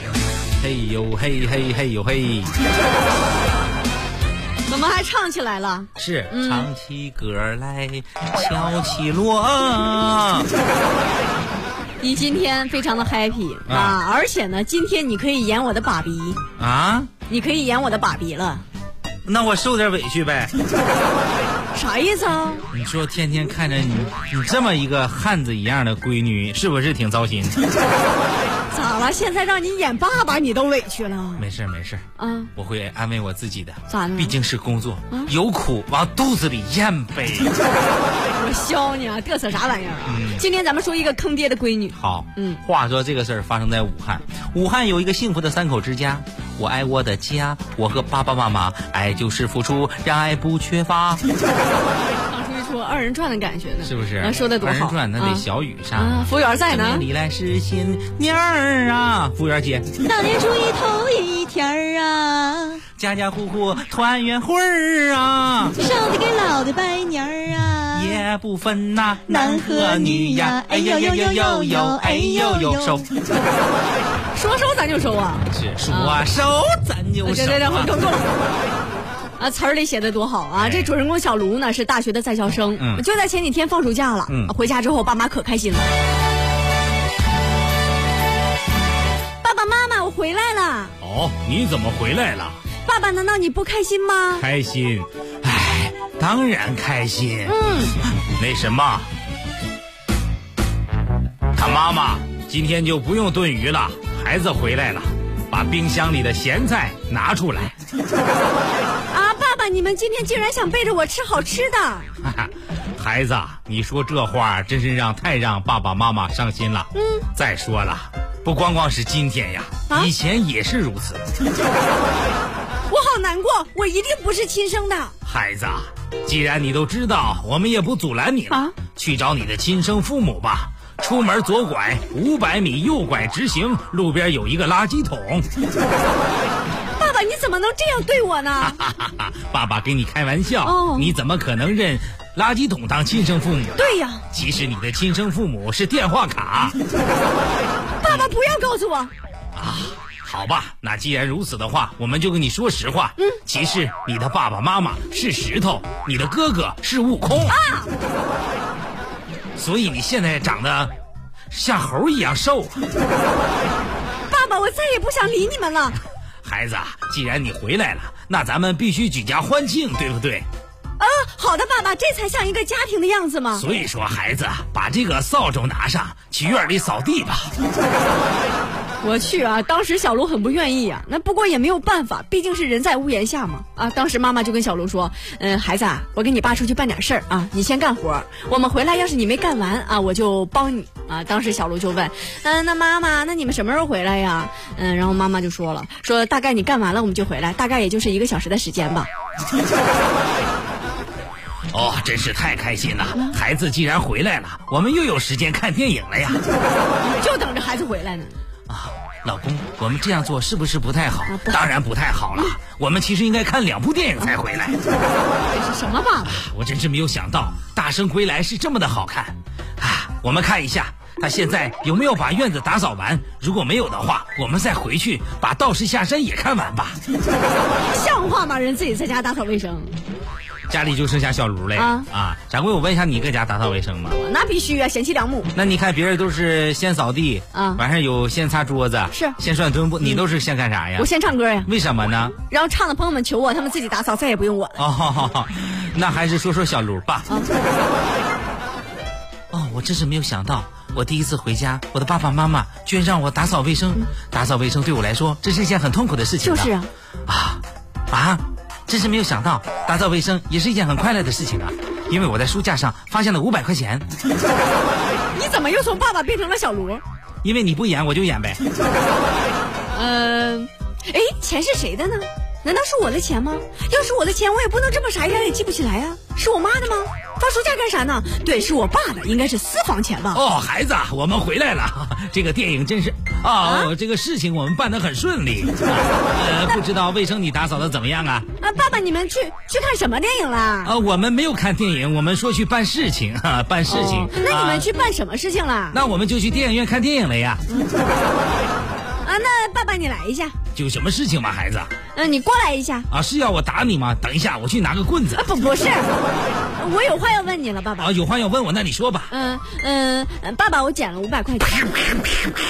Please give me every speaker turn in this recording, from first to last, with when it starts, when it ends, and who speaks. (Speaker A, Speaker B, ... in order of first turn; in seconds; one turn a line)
Speaker A: 0.6-2.6
Speaker B: 4.7-6.7
Speaker A: 6.0-10.5
Speaker B: 12.0-16.4
Speaker A: 13.7-14.0
Speaker A: 16.6-17.1
Speaker B: 17.3-18.6
Speaker A: 19.3-20.5
Speaker B: 21.7-22.7
Speaker A: 22.7-27.6
Speaker B: 28.7-31.5
Speaker A: 31.4-32.0
Speaker B: 32.2-32.5
Speaker A: 32.6-37.5
Speaker B: 33.9-34.4
Speaker B: 38.4-42.6
Speaker A: 40.1-40.4
Speaker A: 42.0-51.2
Speaker B: 52.2-57.0
Speaker A: 53.8-59.9
Speaker B: 60.0-62.8
Speaker A: 63.0-65.8
Speaker B: 65.8-68.2
Speaker A: 67.9-73.1
Speaker B: 69.3-73.1
Speaker B: 74.3-76.2
Speaker A: 75.5-77.9
Speaker B: 77.2-78.3
Speaker B: 79.4-85.9
Speaker A: 80.6-80.9
Speaker A: 82.8-83.0
Speaker A: 84.3-84.5
Speaker B: 89.4-91.0
Speaker A: 91.0-92.6
Speaker B: 92.8-94.5
Speaker A: 94.4-99.1
Speaker B: 97.5-98.0
Speaker A: 101.5-107.7
Speaker B: 109.1-112.1
Speaker A: 112.2-121.2
Speaker B: 117.0-117.2
Speaker B: 122.9-125.2
Speaker A: 125.2-135.5
Speaker B: 137.0-138.8
Speaker A: 138.6-146.8
Speaker B: 140.6-141.2
Speaker B: 143.8-144.2
Speaker B: 148.0-149.1
Speaker A: 149.6-157.6
Speaker B: 157.5-157.9
Speaker A: 159.6-160.9
Speaker A: 161.5-162.8
Speaker B: 164.3-166.0
Speaker A: 166.4-170.5
Speaker B: 171.0-173.7
Speaker A: 173.6-177.5
Speaker B: 179.0-199.1
Speaker A: 201.7-206.4
Speaker B: 207.0-208.4
Speaker A: 208.7-214.8
Speaker B: 211.3-211.7
Speaker B: 215.5-216.4
Speaker A: 216.2-227.0
Speaker B: 227.9-229.9
Speaker A: 230.7-234.2
Speaker B: 231.8-232.1
Speaker B: 234.1-235.5
Speaker A: 235.5-241.1
Speaker B: 237.5-237.8
Speaker B: 239.1-239.4
Speaker B: 241.0-241.7
Speaker A: 241.7-242.4
Speaker B: 242.5-244.8
Speaker A: 244.8-247.3
Speaker B: 247.3-247.5
Speaker A: 249.5-256.7
Speaker B: 256.4-256.9
Speaker A: 257.3-264.1
Speaker B: 265.3-267.0
Speaker A: 267.4-268.6
Speaker B: 269.9-280.4
Speaker A: 280.3-288.5
Speaker B: 283.6-283.9
Speaker B: 288.6-290.9
Speaker A: 290.8-294.9
Speaker B: 293.9-296.0
Speaker A: 295.9-297.6
Speaker B: 299.2-300.6
Speaker A: 300.7-301.9
Speaker B: 302.1-303.1
Speaker A: 303.1-305.4
Speaker B: 305.3-306.2
Speaker B: 306.8-308.1
Speaker A: 308.0-309.3
Speaker B: 309.3-312.3